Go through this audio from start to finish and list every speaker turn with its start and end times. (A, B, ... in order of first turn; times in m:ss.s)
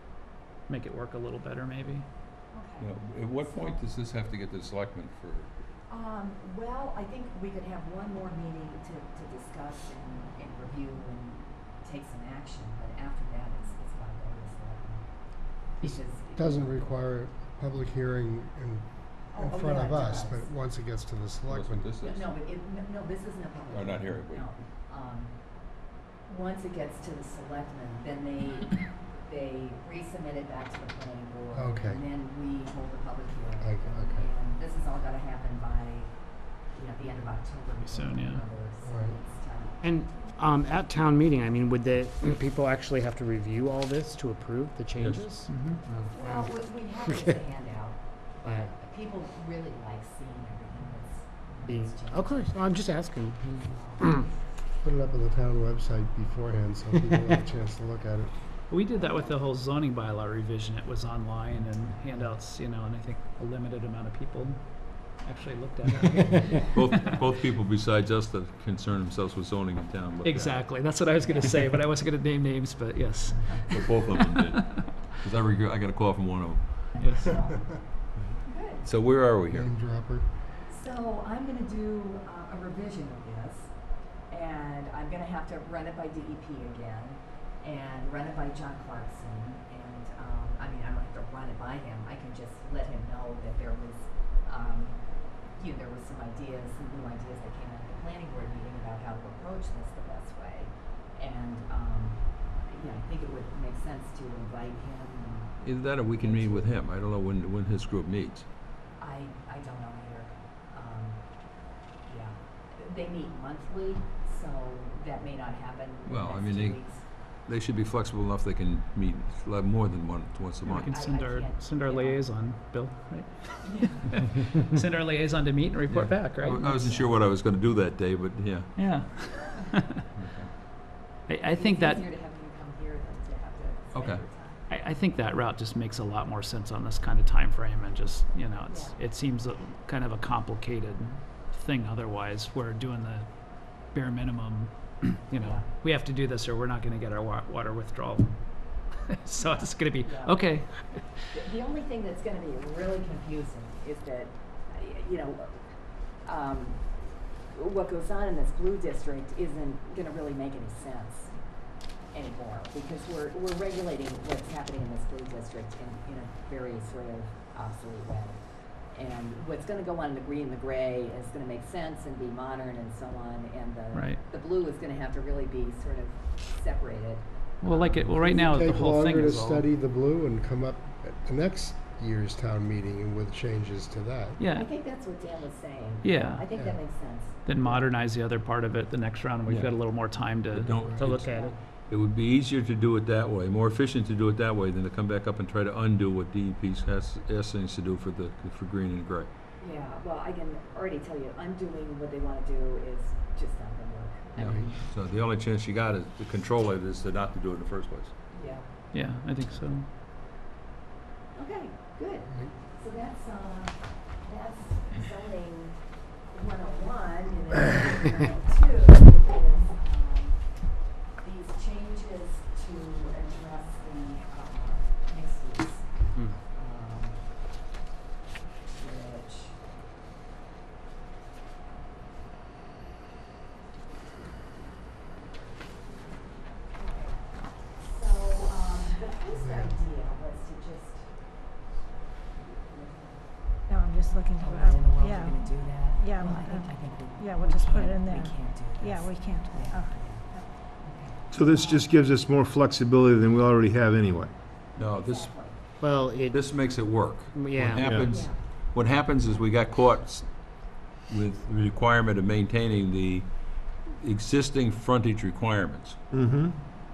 0:00.6-0:02.0 A
0:02.5-0:03.8 B
0:02.8-0:05.5 C
0:05.9-0:15.0 B
0:15.8-0:17.0 B
0:15.8-0:21.9 D
0:19.3-0:20.5 B
0:21.5-0:22.3 C
0:22.0-0:25.4 B
0:23.7-0:24.5 C
0:26.3-0:36.1 B
0:31.5-0:32.0 D
0:33.6-0:34.3 D
0:36.7-0:40.3 B
0:37.8-0:38.4 A
0:38.8-0:39.2 D
0:39.8-0:45.5 E
0:44.9-0:45.2 C
0:45.5-0:45.8 A
0:46.1-0:48.0 B
0:46.2-0:46.5 E
0:48.4-0:48.7 E
0:48.6-0:52.5 B
0:51.6-0:54.2 E
0:53.7-0:54.3 B
0:54.8-0:58.3 D
0:58.7-1:07.2 A
1:06.4-1:06.8 B
1:06.7-1:10.7 C
1:10.2-1:14.5 A
1:13.7-1:17.0 C
1:16.9-1:17.8 B
1:17.0-1:17.6 A
1:18.4-1:18.9 B
1:18.8-1:19.7 C
1:19.5-1:20.3 D
1:20.7-1:23.7 B
1:24.3-1:35.0 B
1:35.6-1:46.8 B
1:45.6-1:48.4 C
1:49.0-1:51.3 B
1:52.0-1:57.0 B
1:56.0-2:00.9 C
2:00.6-2:06.8 A
2:00.8-2:02.3 B
2:03.6-2:04.3 B
2:05.9-2:08.7 C
2:06.4-2:07.1 B
2:08.7-2:10.0 A
2:10.1-2:10.5 C
2:11.3-2:12.0 A
2:11.5-2:14.7 B
2:13.9-2:14.2 C
2:14.7-2:23.3 A
2:18.6-2:19.0 B
2:23.8-2:28.4 A
2:25.4-2:25.7 B
2:28.9-2:31.0 A
2:29.4-2:30.4 B
2:31.3-2:35.6 B
2:36.2-2:36.9 B
2:37.5-2:41.3 B
2:42.1-2:48.4 B
2:48.9-2:58.2 B
2:53.9-2:54.2 A
2:57.6-2:59.7 A
2:58.2-3:04.4 D
3:04.4-3:04.7 A
3:04.5-3:07.9 B
3:06.0-3:06.4 A
3:07.4-3:10.7 A
3:09.5-3:11.3 C
3:11.0-3:11.6 E
3:11.2-3:11.5 B
3:11.9-3:19.3 C
3:19.6-3:24.8 B
3:24.4-3:24.8 D
3:24.4-3:28.1 C
3:28.3-3:28.7 B
3:28.9-3:29.9 A
3:31.3-3:35.8 B
3:36.3-3:47.2 B
3:48.8-3:49.6 B
3:56.7-4:03.6 B
3:59.3-3:59.7 D
4:03.7-4:10.5 F
4:04.2-4:11.9 B
4:11.3-4:14.3 G
4:14.7-4:15.5 C
4:14.9-4:15.6 B
4:15.8-4:16.4 E
4:16.3-4:23.3 C
4:17.3-4:17.9 E
4:17.8-4:18.1 G
4:18.0-4:18.4 B
4:23.8-4:26.0 C
4:26.1-4:26.5 G